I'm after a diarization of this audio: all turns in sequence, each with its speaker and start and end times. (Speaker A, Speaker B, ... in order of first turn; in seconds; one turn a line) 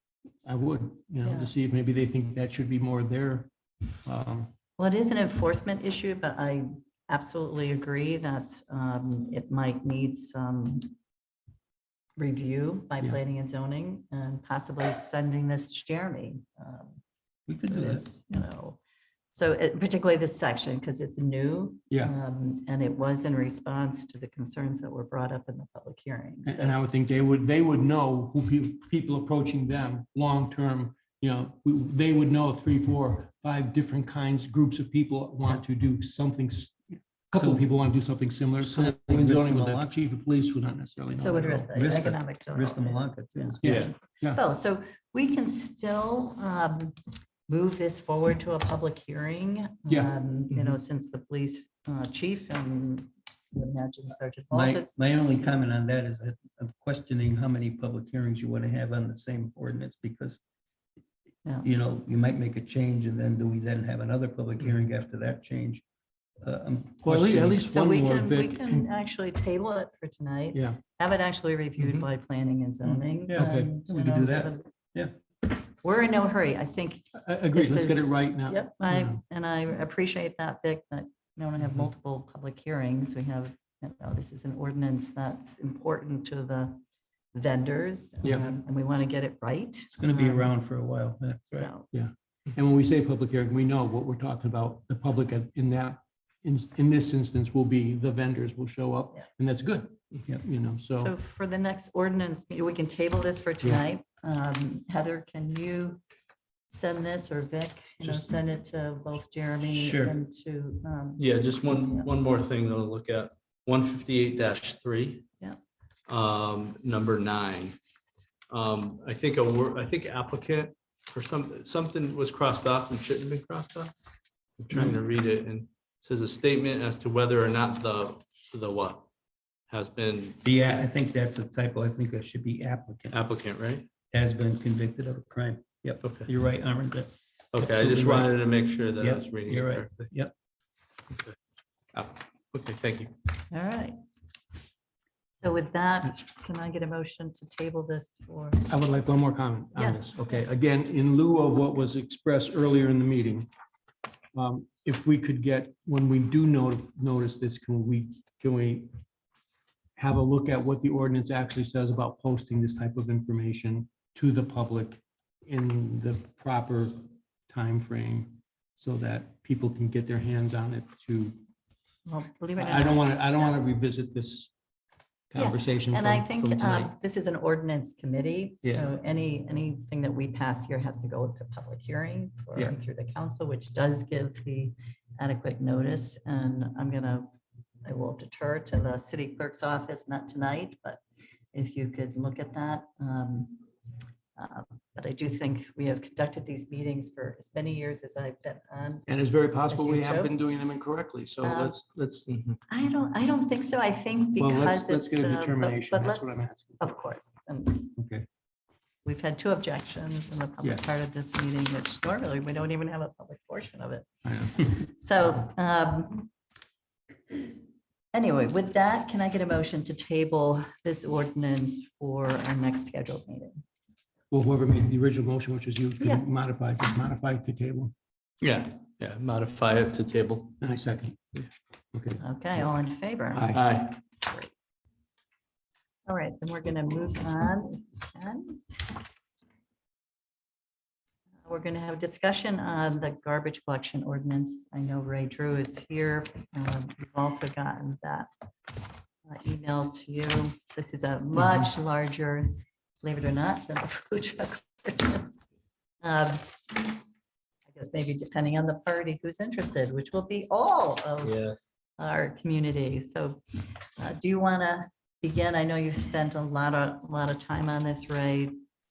Speaker A: 0.5-3.5
Speaker B: 1.2-1.5
Speaker A: 4.0-4.5
Speaker B: 4.8-10.9
Speaker B: 12.2-17.0
Speaker C: 17.5-18.0
Speaker B: 17.7-18.8
Speaker B: 19.3-26.8
Speaker A: 26.4-41.9
Speaker C: 37.4-37.6
Speaker C: 38.6-39.9
Speaker B: 41.2-47.0
Speaker C: 41.7-43.9
Speaker A: 43.6-44.4
Speaker B: 47.5-55.0
Speaker A: 49.9-50.7
Speaker C: 54.5-60.4
Speaker C: 61.6-65.8
Speaker C: 66.4-67.6
Speaker A: 67.0-68.9
Speaker B: 67.6-74.7
Speaker A: 70.5-70.8
Speaker C: 73.3-75.1
Speaker A: 73.3-73.7
Speaker B: 75.8-86.8
Speaker A: 77.2-79.2
Speaker B: 87.3-90.5
Speaker A: 88.2-88.5
Speaker C: 89.9-91.7
Speaker B: 91.5-91.9
Speaker A: 91.9-101.1
Speaker B: 101.0-106.0
Speaker B: 106.7-112.1
Speaker C: 109.7-110.2
Speaker D: 111.2-115.2
Speaker D: 116.1-117.8
Speaker D: 118.5-123.9
Speaker D: 124.6-129.1
Speaker D: 129.7-130.4
Speaker C: 130.4-133.2
Speaker D: 133.1-133.9
Speaker C: 134.1-138.3
Speaker D: 136.0-136.3
Speaker D: 137.5-140.1
Speaker C: 139.0-140.3
Speaker D: 141.1-141.4
Speaker D: 141.9-143.1
Speaker B: 143.5-144.0
Speaker B: 145.4-148.7
Speaker A: 148.7-153.5
Speaker B: 149.8-150.7
Speaker A: 154.3-158.9
Speaker A: 160.0-171.4
Speaker B: 172.1-173.6
Speaker A: 172.6-174.5
Speaker A: 175.3-176.8
Speaker B: 175.4-187.3
Speaker B: 187.8-191.0
Speaker B: 191.5-193.7
Speaker B: 194.3-199.1
Speaker A: 199.1-202.3
Speaker B: 199.7-200.4
Speaker B: 201.4-201.8
Speaker D: 202.3-202.6
Speaker B: 202.7-208.0
Speaker A: 204.4-207.0
Speaker B: 209.0-216.3
Speaker A: 214.3-214.5
Speaker B: 217.3-217.6
Speaker B: 218.1-223.6
Speaker A: 224.3-227.9
Speaker B: 226.0-226.3
Speaker D: 228.4-230.6
Speaker A: 230.6-231.2
Speaker A: 231.9-232.7
Speaker B: 232.2-233.5
Speaker A: 233.3-233.6
Speaker D: 233.5-234.0
Speaker B: 234.2-234.5
Speaker B: 236.1-238.6
Speaker B: 241.4-248.3
Speaker B: 249.3-252.5
Speaker B: 253.0-255.3
Speaker B: 256.0-257.0
Speaker B: 257.7-261.4
Speaker D: 261.2-261.6
Speaker B: 262.0-268.6